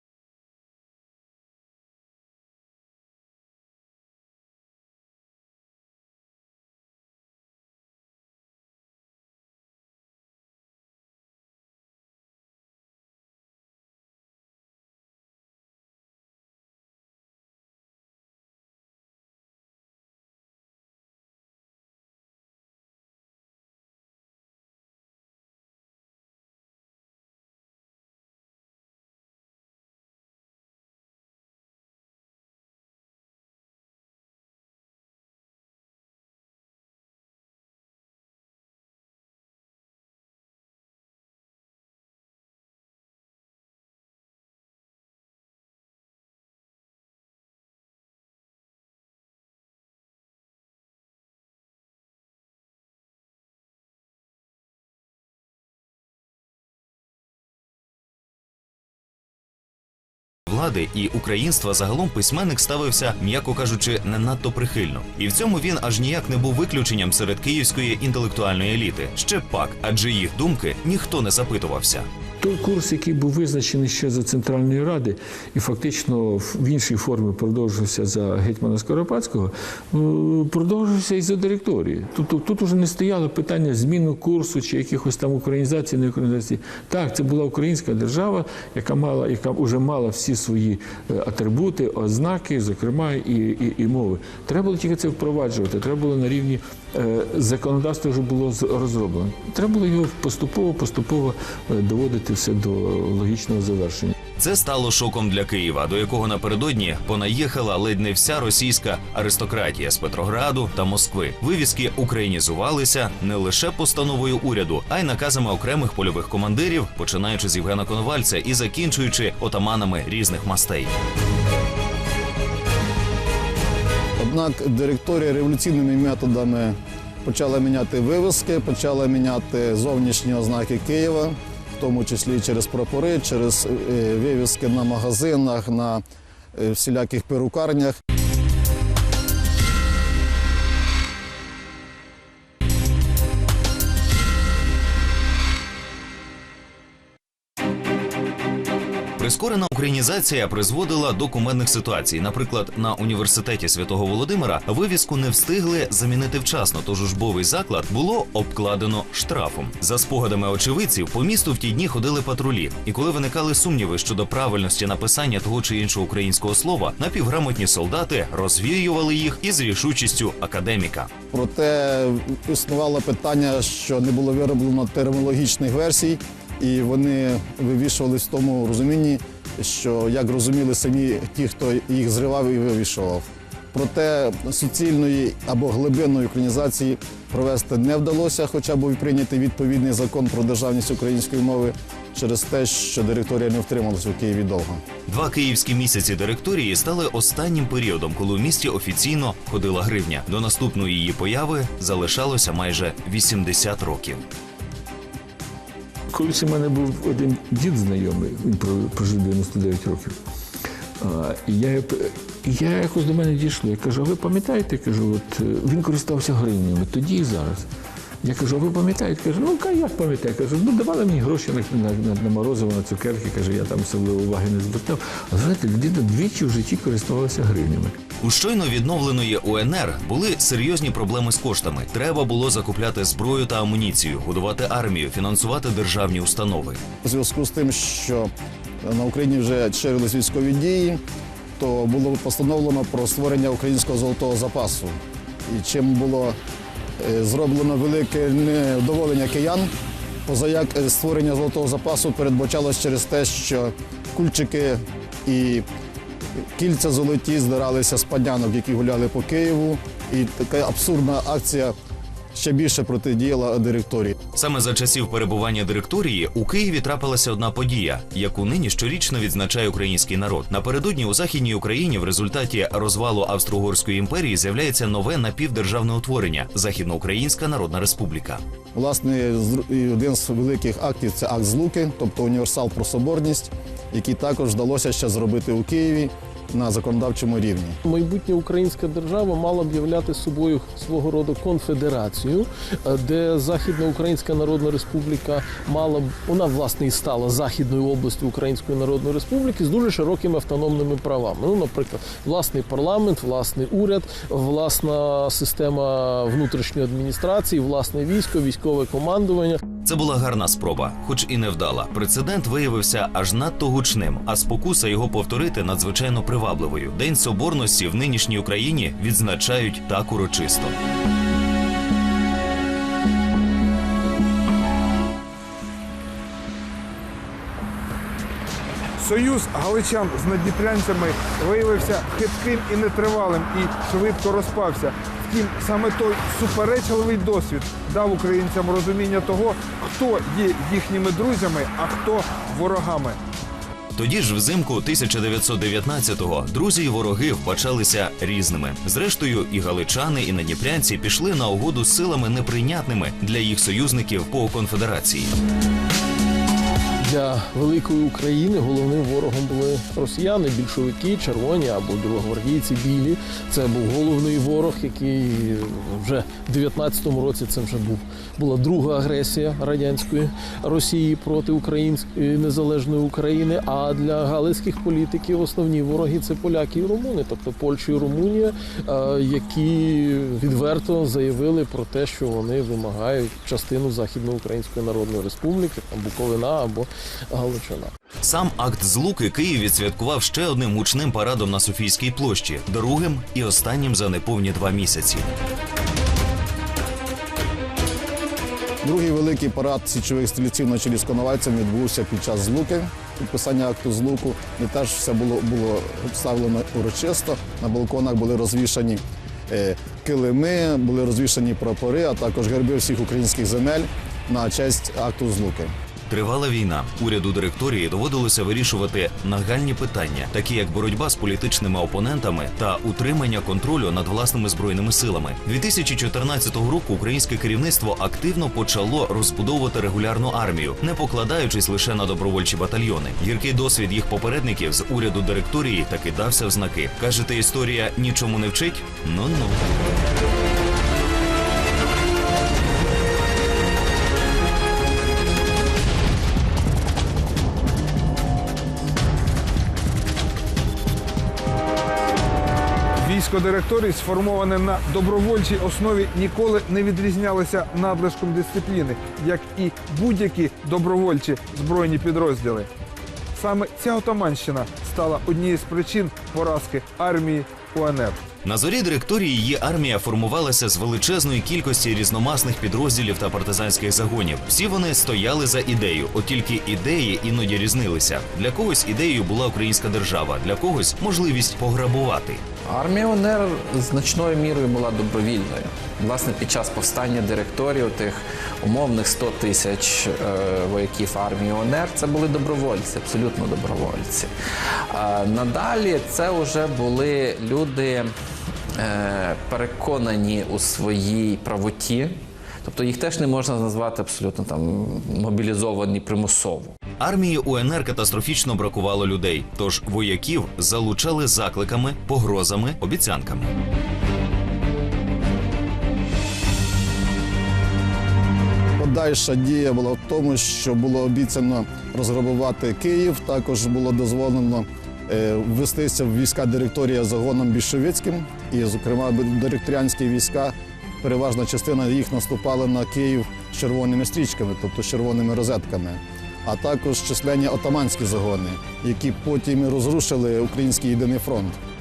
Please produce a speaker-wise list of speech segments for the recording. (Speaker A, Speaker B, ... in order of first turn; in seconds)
Speaker A: 60.5-72.1, 104.4-120.9, 149.2-171.1, 195.1-204.2, 228.2-236.8, 264.3-278.4, 309.8-320.8, 343.9-355.4, 388.2-395.4, 416.1-439.6, 468.4-482.4, 507.0-513.5
Speaker B: 72.4-104.1, 206.1-210.2, 211.0-217.7, 218.2-228.0
Speaker C: 124.2-136.0, 136.5-138.0, 171.3-194.8, 237.0-238.3, 238.8-241.0, 241.6-246.4, 247.0-249.7, 250.2-255.7, 256.6-261.7, 262.3-264.1, 278.7-287.8, 398.8-415.7, 518.8-541.6
Speaker D: 287.9-309.6, 357.0-387.9
Speaker E: 329.0-343.2, 453.0-462.7, 463.3-468.2
Speaker F: 482.6-494.3, 494.9-498.1, 498.8-506.8